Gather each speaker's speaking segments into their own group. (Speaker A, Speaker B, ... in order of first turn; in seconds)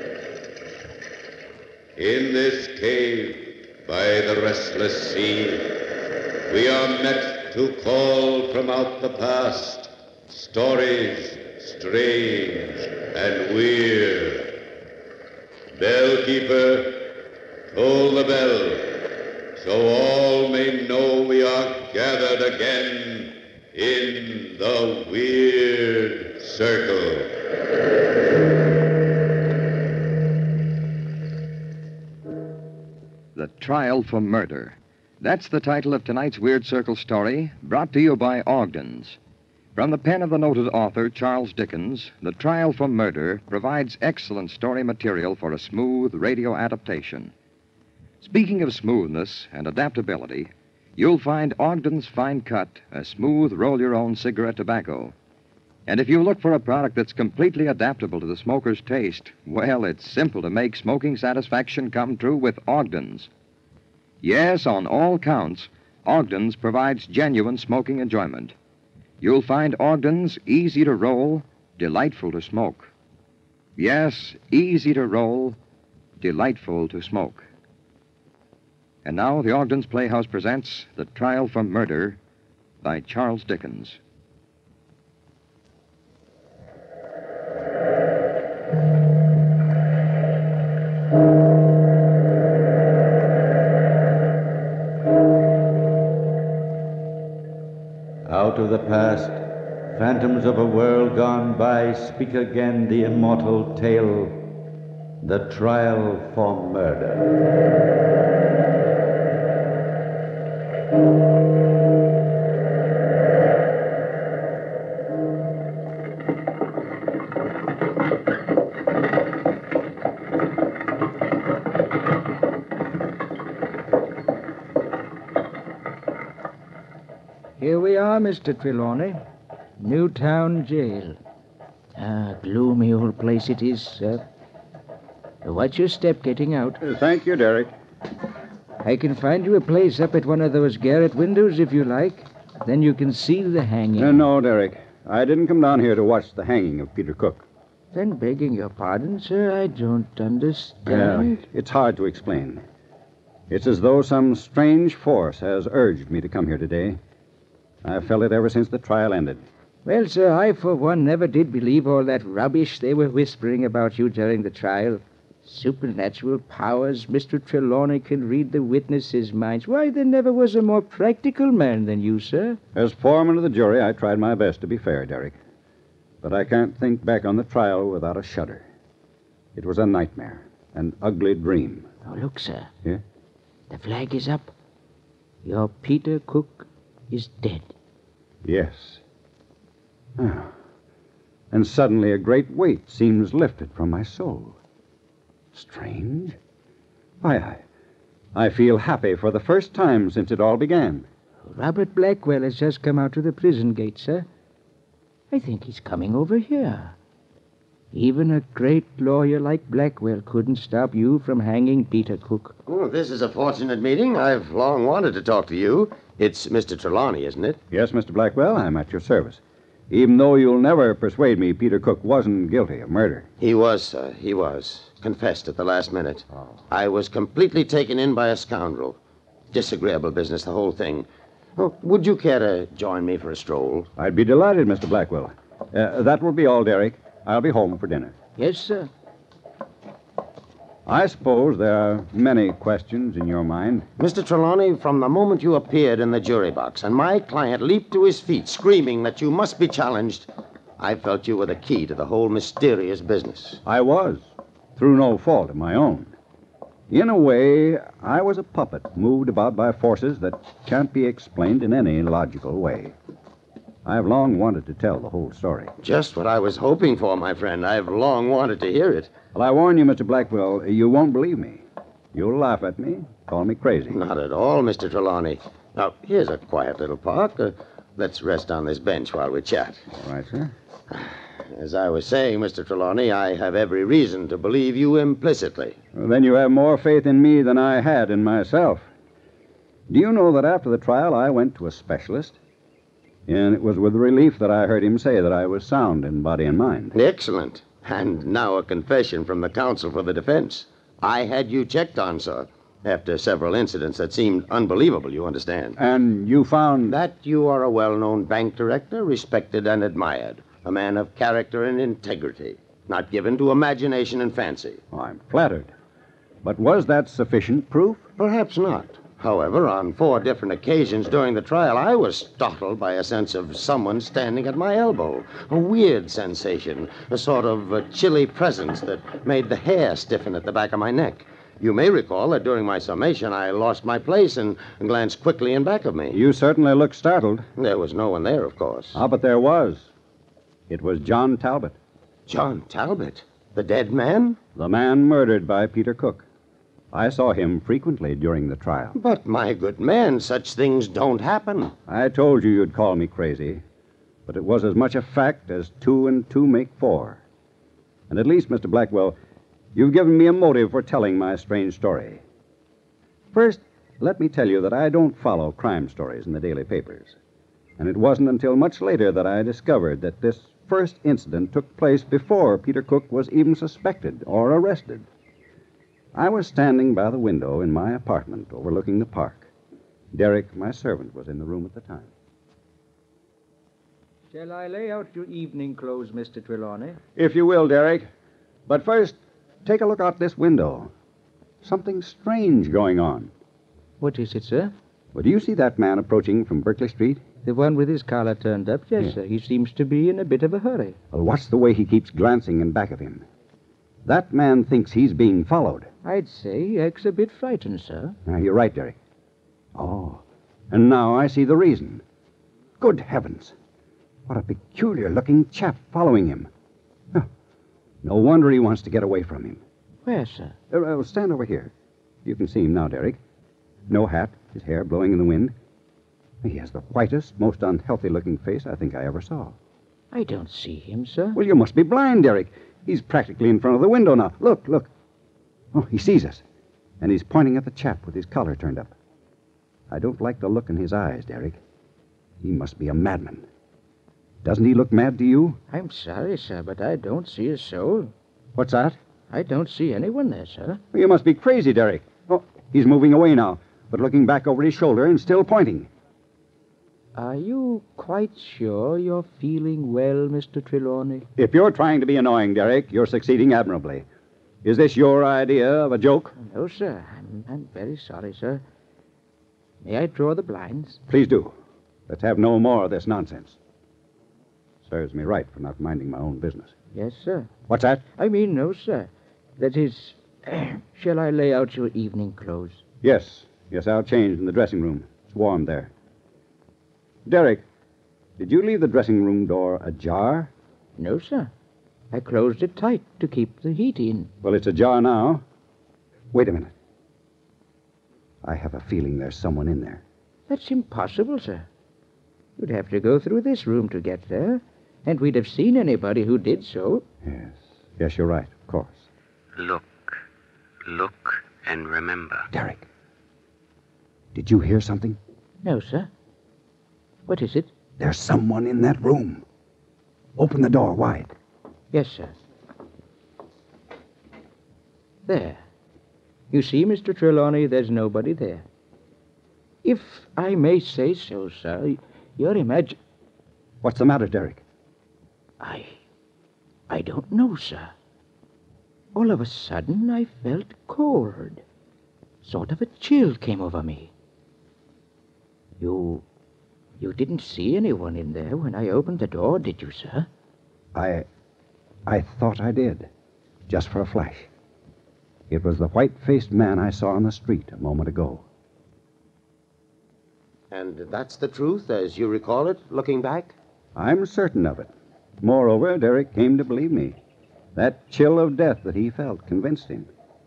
Speaker A: 2.0-5.8, 6.5-14.6, 15.7-17.2, 17.7-19.1, 19.6-27.4
Speaker B: 33.4-39.2, 39.8-47.3, 48.2-55.1, 55.9-63.3, 64.2-68.5, 69.2-72.9, 73.8-75.6, 76.2-77.5, 79.0-82.2, 82.8-84.0
Speaker C: 98.3-104.5, 105.2-107.3
Speaker D: 127.6-129.2, 129.8-131.2, 132.0-134.2, 135.4-136.8, 138.8-144.3, 147.9-151.4, 159.8-172.6, 182.1-182.7, 183.7-184.5, 185.4-187.7, 201.4-204.3, 205.3-207.0, 207.9-212.6, 238.4-238.9, 384.3-387.0, 394.0-394.7, 397.4-401.0, 406.0-408.2, 420.1-420.6, 430.1-431.4, 445.7-448.1, 449.3-450.8, 457.2-461.3, 466.4-468.6, 469.8-471.0, 476.9-477.5, 478.2-482.8, 491.0-491.5, 492.1-494.3, 500.5-501.7, 502.6-507.1, 515.6-516.1, 517.3-517.7, 521.9-522.4, 525.3-525.6, 526.5-528.6, 529.8-533.0, 535.6-536.0, 536.9-537.9, 539.1-541.6, 542.4-544.1, 545.8-546.2, 547.0-550.3
Speaker E: 136.8-137.7, 144.0-147.4, 150.9-152.6, 153.5-157.0, 157.8-159.4, 172.8-175.4, 176.2-178.7, 179.6-181.9, 188.4-189.0, 190.2-190.5, 191.5-194.6, 195.5-196.4, 197.2-197.6, 198.3-201.1, 217.7-223.3, 234.0-238.2, 240.9-243.9, 253.7-256.1, 256.9-262.9, 263.9-265.7, 269.3-271.6, 272.1-274.0, 279.9-280.5, 285.9-288.9, 289.9-292.4, 293.3-296.9, 305.8-307.0, 314.9-315.7, 316.4-318.1, 336.1-337.5, 338.9-339.9, 340.7-341.8, 344.6-346.2, 346.9-349.0, 351.9-353.6, 354.3-357.2, 358.1-359.2, 359.7-362.2, 363.3-367.2, 367.8-375.1, 376.1-379.5, 380.1-382.1, 387.2-388.1, 388.7-390.9, 391.6-393.3, 395.1-397.2, 401.1-403.2, 404.1-405.9, 408.3-409.0, 409.8-412.0, 412.8-413.5, 414.3-416.5, 418.0-419.6, 420.7-421.7, 422.2-423.2, 423.9-425.6, 426.4-429.6, 431.4-434.9, 435.7-436.4, 437.0-438.9, 439.9-441.6, 442.4-443.5, 444.4-445.6, 448.6-449.0, 450.9-455.9, 461.4-464.1, 464.6-466.4, 471.1-471.6, 472.1-473.6, 474.9-476.7, 477.7-478.0, 483.0-485.9, 487.3-487.6, 488.4-490.5, 494.4-495.4, 496.3-496.7, 498.4-500.0, 507.2-509.1, 512.5-512.8, 514.3-515.2, 518.0-519.4, 520.4-521.3, 533.8-534.6, 550.9-551.3, 552.1-553.1, 553.7-554.5, 555.5-558.4, 564.0-567.2, 567.8-570.1
Speaker F: 212.7-217.6, 223.4-229.0, 229.5-233.9, 244.0-250.3, 250.8-253.6, 265.8-269.1, 273.9-279.9, 280.9-285.8, 296.9-305.8, 306.9-314.8, 318.2-336.2, 337.6-339.0, 342.3-344.4, 348.9-351.8, 560.7-563.5
Speaker G: 509.6-510.2, 510.9-512.5